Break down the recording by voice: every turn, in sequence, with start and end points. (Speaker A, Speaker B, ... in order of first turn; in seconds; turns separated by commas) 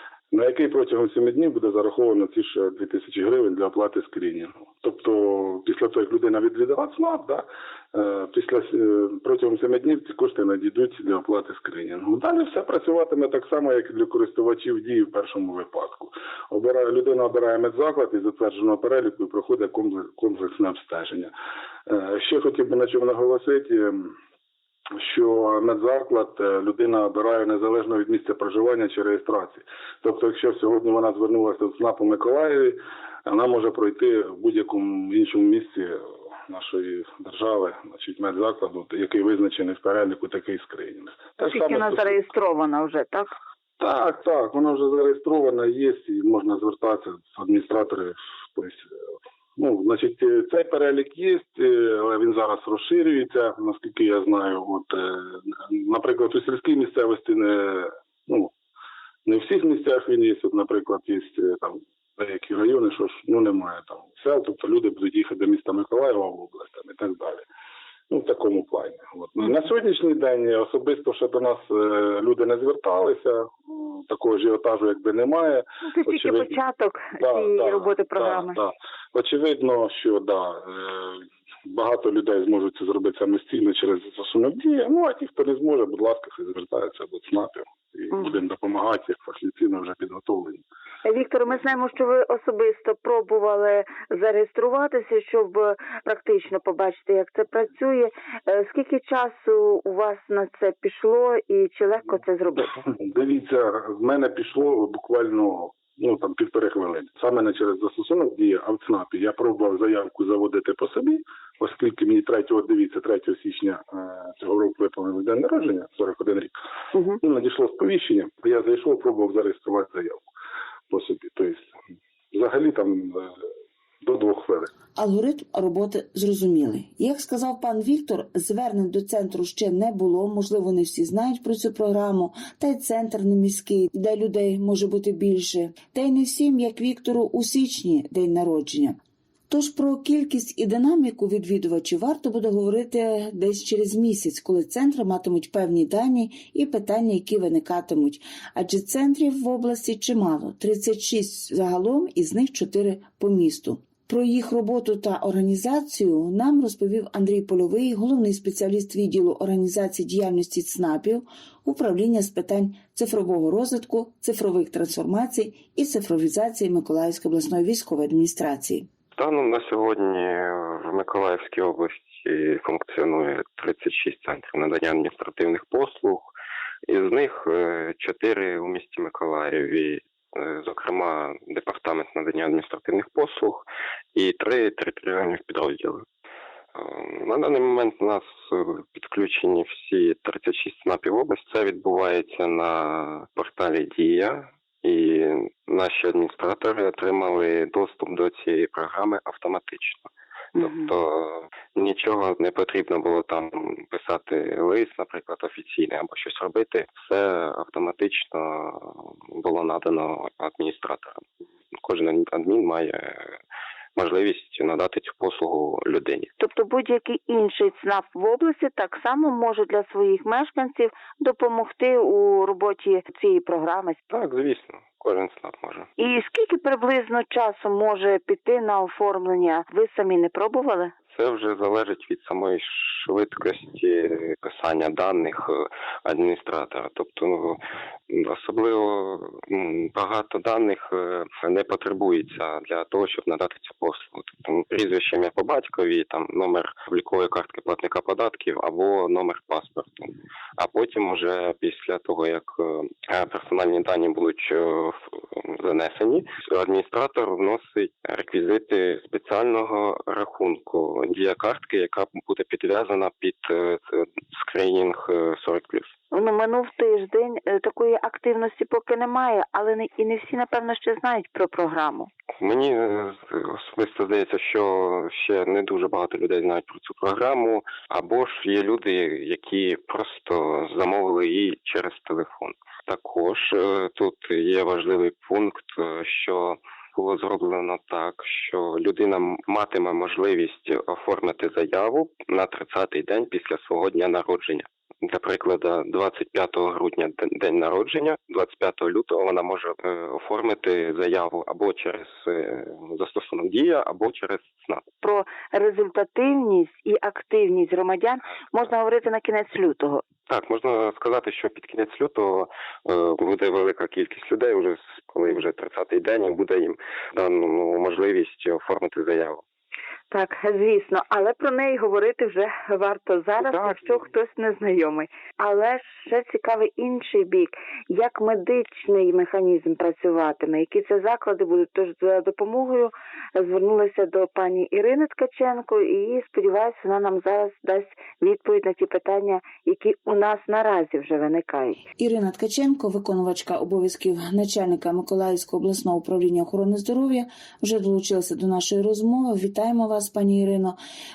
Speaker A: 0.3-21.3, Speaker A: 21.9-24.1, Speaker A: 25.0-42.2, Speaker B: 41.5-43.3, Speaker C: 41.5-42.7, Speaker A: 43.8-48.9, Speaker A: 49.6-58.5, Speaker A: 59.3-67.5, Speaker A: 68.1-76.6, Speaker B: 76.1-77.0, Speaker C: 76.2-78.5, Speaker A: 77.2-90.6, Speaker C: 91.1-102.7, Speaker B: 91.3-102.6, Speaker A: 103.0-116.5, Speaker A: 117.2-120.3, Speaker A: 120.9-121.7, Speaker A: 122.3-123.3, Speaker A: 124.0-124.7, Speaker C: 124.9-168.9, Speaker D: 169.2-176.3, Speaker D: 176.9-186.1, Speaker D: 186.8-211.2, Speaker D: 211.8-213.3, Speaker D: 214.0-216.3, Speaker B: 216.4-223.9, Speaker C: 216.7-224.0, Speaker D: 224.1-225.9, Speaker B: 226.0-230.9, Speaker C: 226.0-230.7, Speaker D: 231.1-237.6, Speaker D: 238.1-265.9, Speaker B: 266.1-272.1, Speaker C: 266.5-271.9, Speaker D: 272.4-304.9, Speaker B: 305.0-310.0, Speaker C: 305.1-310.0, Speaker D: 310.3-319.4, Speaker B: 320.1-332.9, Speaker C: 320.1-350.8, Speaker B: 333.4-341.8